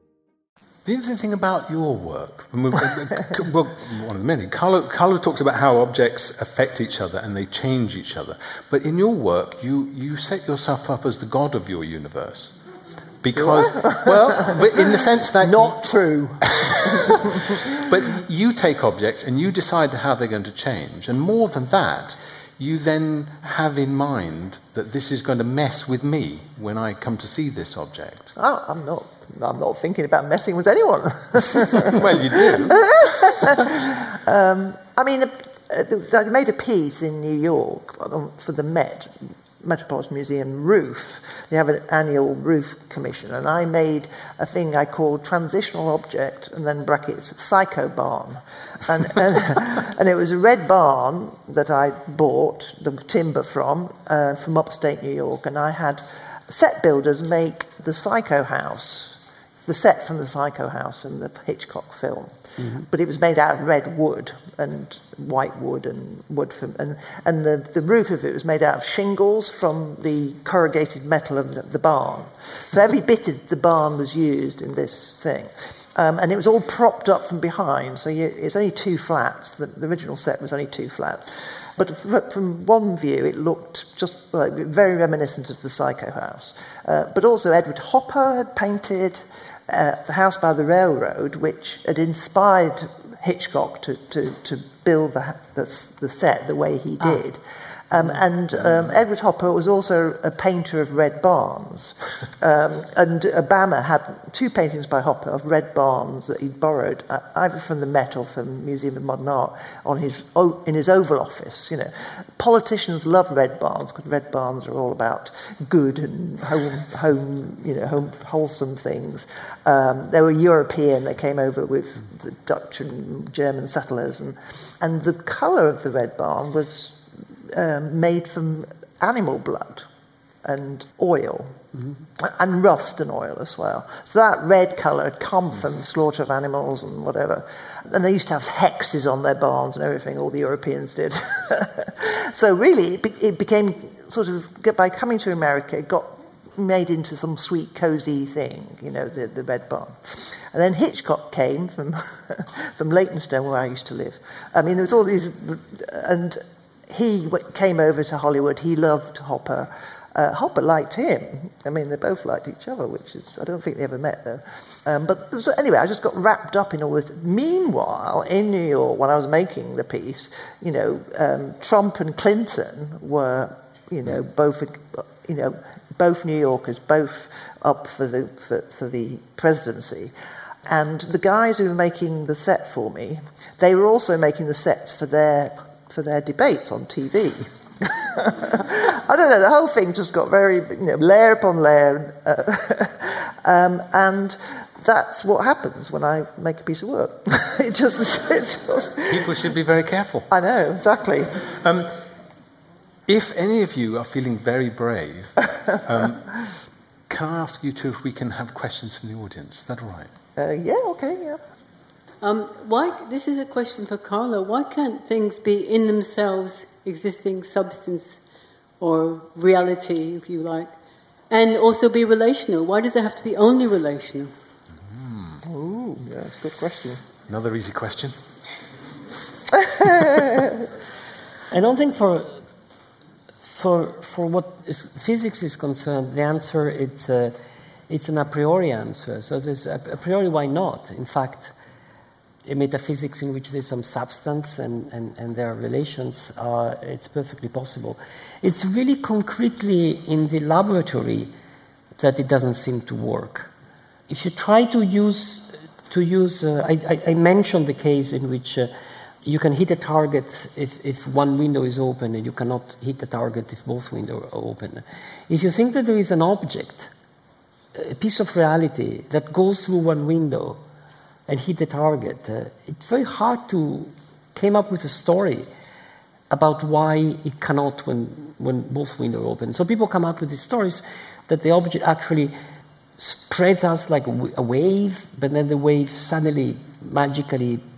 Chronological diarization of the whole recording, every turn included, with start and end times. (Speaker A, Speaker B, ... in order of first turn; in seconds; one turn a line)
Speaker A: 0.8-12.6
Speaker A: 13.2-15.8
Speaker B: 13.4-17.6
Speaker A: 16.5-28.3
Speaker B: 28.4-129.9
Speaker A: 31.9-33.5
Speaker C: 62.6-62.8
Speaker B: 130.4-131.6
Speaker B: 132.2-180.1
Speaker B: 180.7-199.3
Speaker A: 199.1-200.3
Speaker B: 200.3-201.5
Speaker A: 201.5-201.9
Speaker A: 203.1-206.3
Speaker A: 207.1-210.1
Speaker B: 210.4-211.4
Speaker D: 212.2-218.2
Speaker D: 218.8-220.7
Speaker D: 221.3-224.3
Speaker A: 224.9-225.4
Speaker B: 225.4-227.0
Speaker A: 227.3-228.2
Speaker C: 231.5-232.4
Speaker C: 233.4-237.3
Speaker C: 237.9-241.5
Speaker C: 242.4-251.3
Speaker C: 252.0-253.5
Speaker C: 254.1-258.7
Speaker C: 259.2-266.9
Speaker C: 267.7-270.6
Speaker C: 271.3-275.5
Speaker C: 276.3-282.3
Speaker C: 283.0-287.6